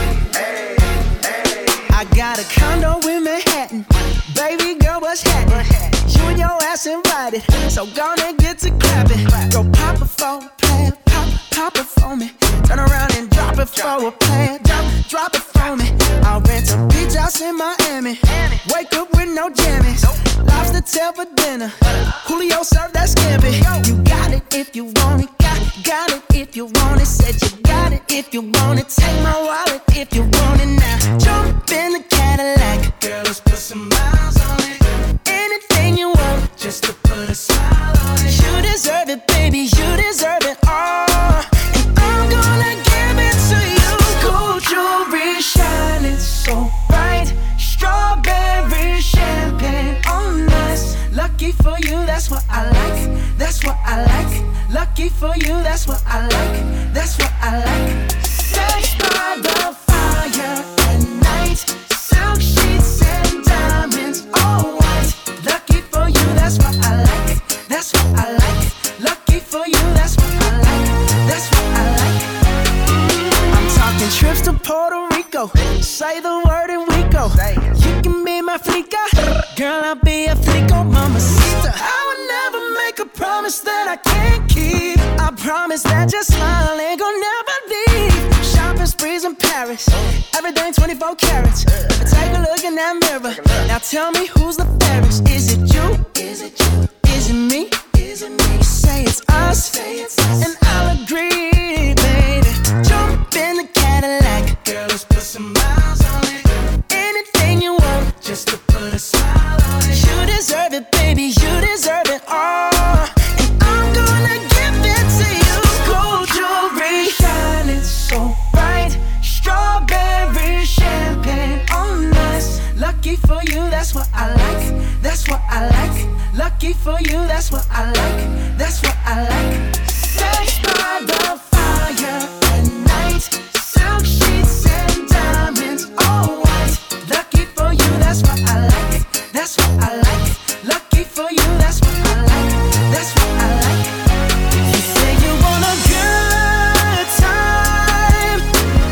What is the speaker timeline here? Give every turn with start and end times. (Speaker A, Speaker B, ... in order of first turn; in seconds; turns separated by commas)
Speaker A: 1.9-72.5, Speaker A: 73.3-144.0, Speaker A: 144.5-148.5